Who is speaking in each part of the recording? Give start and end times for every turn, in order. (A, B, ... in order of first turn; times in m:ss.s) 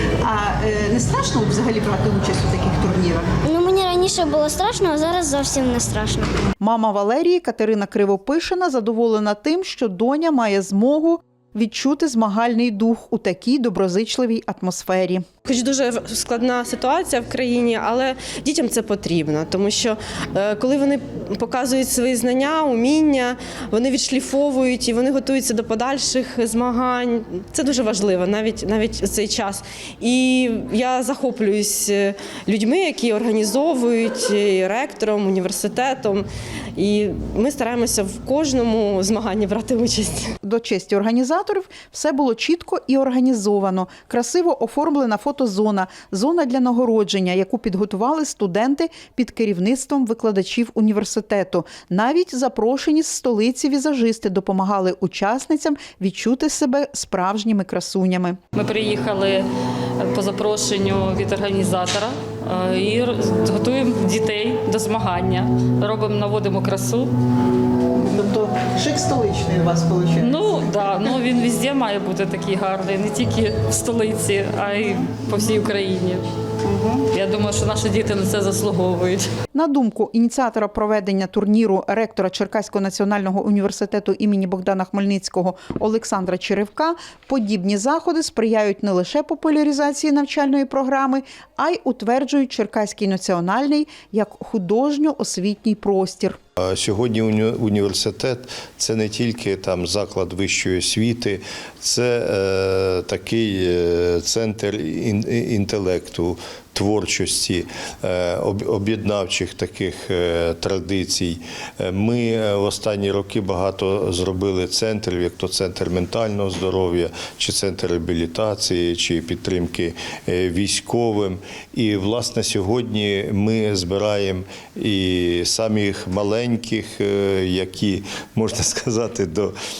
0:00.2-0:03.3 A
0:03.4-0:06.4 B
0:06.6-0:15.2 A
0:15.4-0:40.3 C
0:40.4-0:58.4 A
0:58.5-0:59.4 D
1:00.0-1:07.1 D
1:08.1-1:10.4 A
1:10.2-1:19.3 D
1:19.5-1:36.4 A
1:36.6-2:09.5 E